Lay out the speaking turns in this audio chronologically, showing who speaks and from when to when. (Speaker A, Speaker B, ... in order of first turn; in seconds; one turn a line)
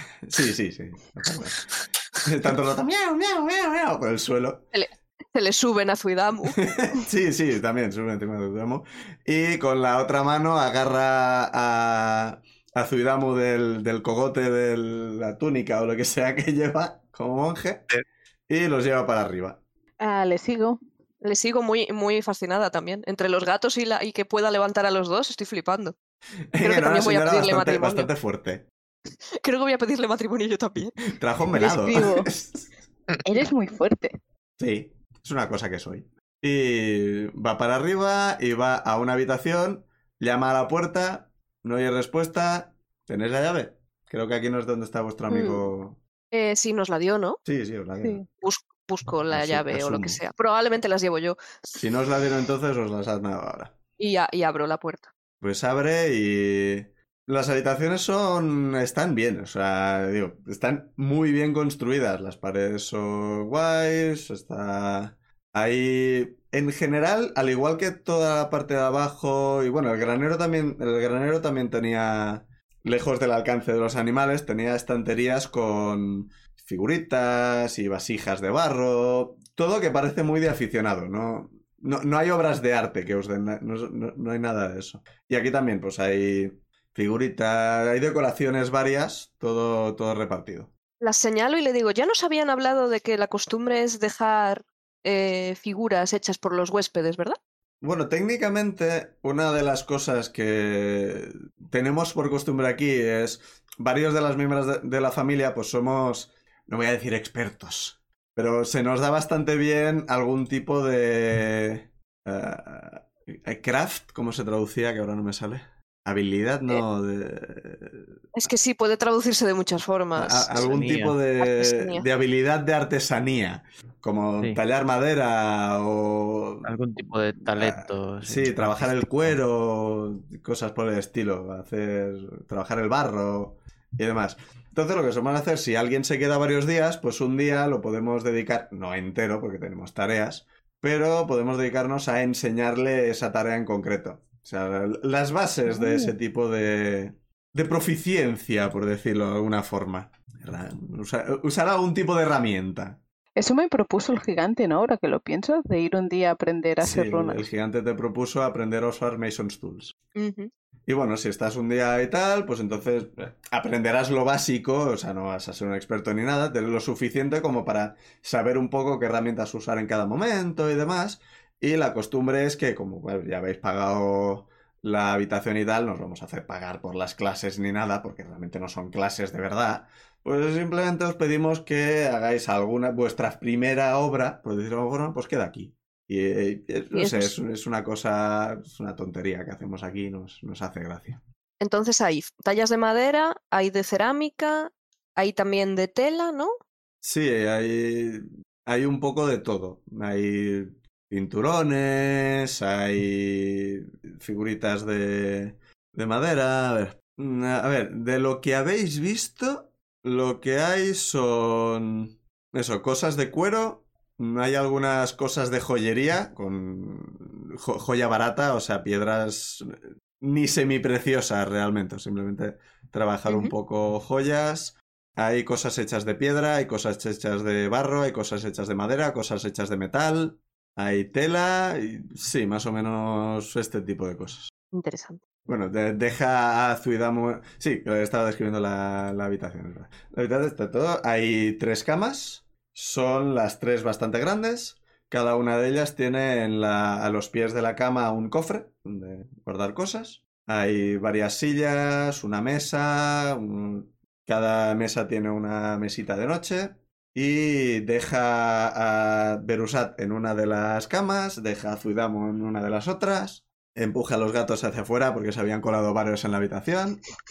Speaker A: 0.2-1.6
Speaker A: 2.2-4.6
Speaker B: 4.7-6.6
Speaker A: 6.6-17.9
Speaker A: 18.5-19.6
Speaker C: 20.0-20.8
Speaker B: 21.2-25.9
Speaker A: 26.5-28.7
Speaker B: 26.6-28.1
Speaker B: 29.4-31.1
Speaker A: 31.1-32.7
Speaker C: 31.5-32.3
Speaker C: 33.2-34.1
Speaker A: 34.6-46.0
Speaker B: 45.3-45.6
Speaker B: 46.3-47.4
Speaker A: 47.5-48.2
Speaker B: 48.4-51.4
Speaker A: 49.3-50.2
Speaker A: 51.8-53.7
Speaker B: 54.0-55.1
Speaker A: 55.4-90.7
Speaker B: 91.0-97.4
Speaker A: 97.8-118.2
Speaker B: 118.3-120.8
Speaker A: 120.2-126.7
Speaker D: 120.6-121.2
Speaker B: 121.4-122.0
Speaker D: 126.6-129.4
Speaker A: 127.4-153.0
Speaker C: 145.7-146.1
Speaker C: 153.3-157.4
Speaker A: 156.8-159.9
Speaker B: 160.2-160.5
Speaker A: 160.9-191.2
Speaker B: 186.9-187.3
Speaker B: 191.6-196.5
Speaker A: 197.0-234.5
Speaker B: 223.3-223.5
Speaker B: 234.7-235.2
Speaker A: 235.4-267.1